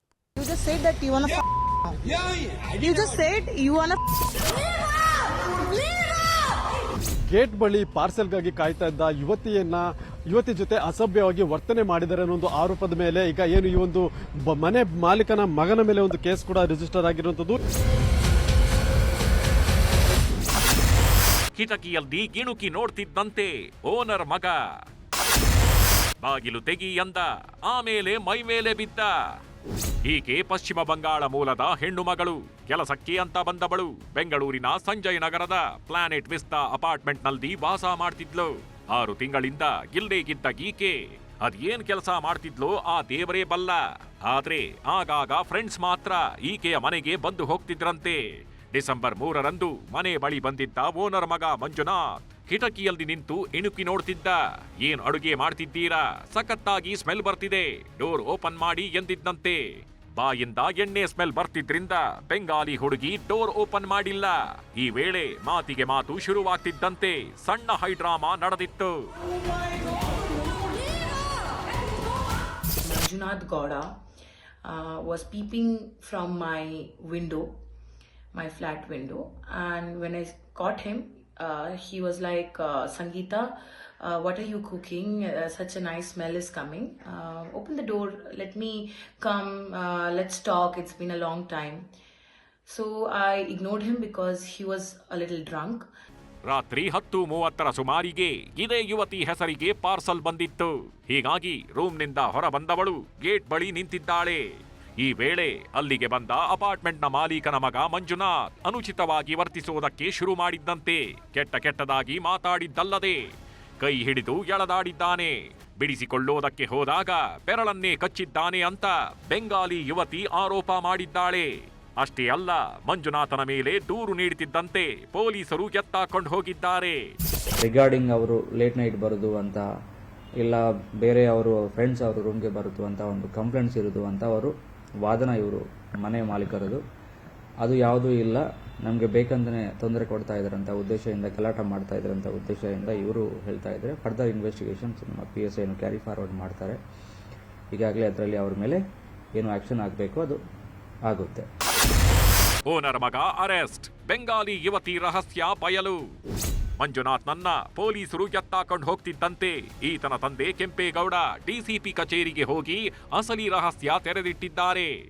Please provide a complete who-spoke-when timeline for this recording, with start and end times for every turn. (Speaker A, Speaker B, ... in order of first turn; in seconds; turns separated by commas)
Speaker A: 0.4-1.4, Speaker A: 2.6-4.0, Speaker B: 7.3-17.6, Speaker C: 21.5-24.6, Speaker C: 26.2-29.1, Speaker C: 30.1-48.2, Speaker C: 48.7-59.6, Speaker C: 60.1-69.0, Speaker D: 72.8-73.9, Speaker D: 74.6-77.5, Speaker D: 78.3-91.8, Speaker D: 92.7-95.9, Speaker C: 96.5-104.4, Speaker C: 105.0-113.2, Speaker C: 113.8-127.1, Speaker E: 127.6-129.6, Speaker E: 130.4-136.8, Speaker E: 137.6-146.8, Speaker E: 147.7-148.8, Speaker E: 149.3-150.4, Speaker E: 151.1-151.4, Speaker C: 152.7-156.0, Speaker C: 156.8-164.9